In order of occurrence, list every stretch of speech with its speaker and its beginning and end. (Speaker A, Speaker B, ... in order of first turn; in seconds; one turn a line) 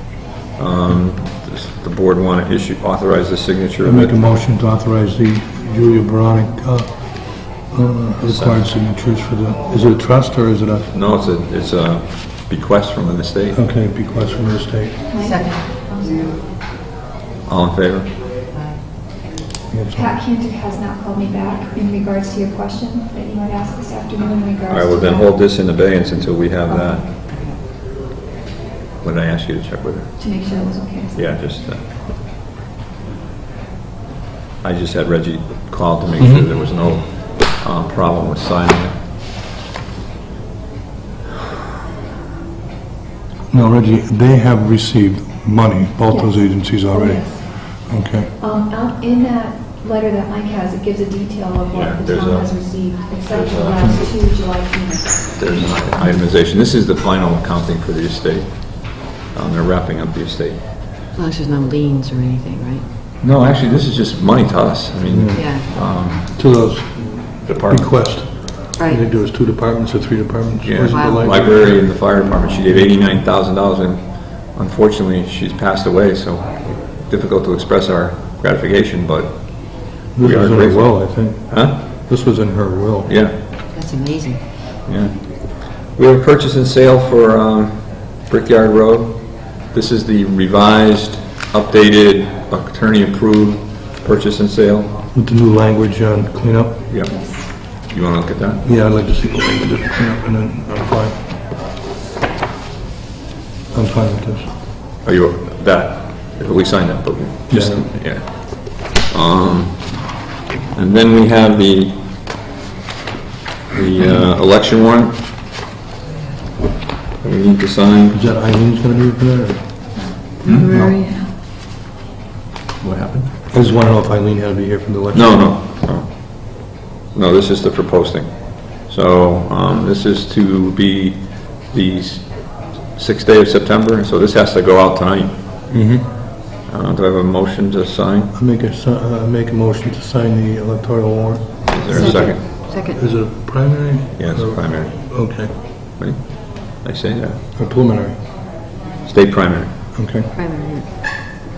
Speaker A: 0.6-4.1
Speaker B: 3.8-10.9
Speaker A: 8.2-8.6
Speaker A: 10.9-13.6
Speaker B: 13.5-15.0
Speaker C: 15.1-16.3
Speaker D: 15.2-15.6
Speaker A: 17.5-18.1
Speaker D: 18.5-18.8
Speaker B: 19.7-20.1
Speaker C: 19.9-25.4
Speaker A: 24.7-27.1
Speaker D: 27.3-27.6
Speaker A: 29.0-30.1
Speaker C: 30.2-31.2
Speaker A: 31.1-31.8
Speaker A: 34.6-38.9
Speaker B: 36.2-36.5
Speaker B: 43.5-48.3
Speaker C: 46.1-47.5
Speaker C: 48.4-55.9
Speaker A: 51.7-52.6
Speaker A: 53.3-54.1
Speaker A: 55.4-60.6
Speaker D: 61.1-62.9
Speaker A: 63.2-66.4
Speaker B: 65.1-65.6
Speaker D: 65.3-65.7
Speaker B: 66.3-71.8
Speaker A: 67.5-68.1
Speaker A: 70.6-81.8
Speaker D: 70.9-71.4
Speaker B: 80.2-83.1
Speaker A: 83.1-83.4
Speaker D: 83.7-84.4
Speaker A: 84.9-85.2
Speaker A: 85.8-95.0
Speaker B: 95.1-96.8
Speaker A: 96.9-98.6
Speaker C: 97.1-97.5
Speaker B: 98.7-101.2
Speaker B: 103.7-104.5
Speaker A: 105.0-110.2
Speaker B: 107.5-108.1
Speaker A: 110.7-112.0
Speaker A: 113.7-115.2
Speaker A: 117.2-118.2
Speaker B: 118.1-119.9
Speaker C: 120.4-121.3
Speaker A: 120.4-120.8
Speaker A: 122.8-123.3
Speaker B: 123.5-125.5
Speaker A: 125.1-135.3
Speaker B: 135.7-136.1
Speaker A: 136.7-138.3
Speaker B: 138.3-145.5
Speaker A: 141.7-142.5
Speaker D: 141.9-143.0
Speaker A: 144.2-147.4
Speaker B: 147.6-148.2
Speaker A: 149.1-150.1
Speaker B: 149.9-150.3
Speaker D: 150.3-150.9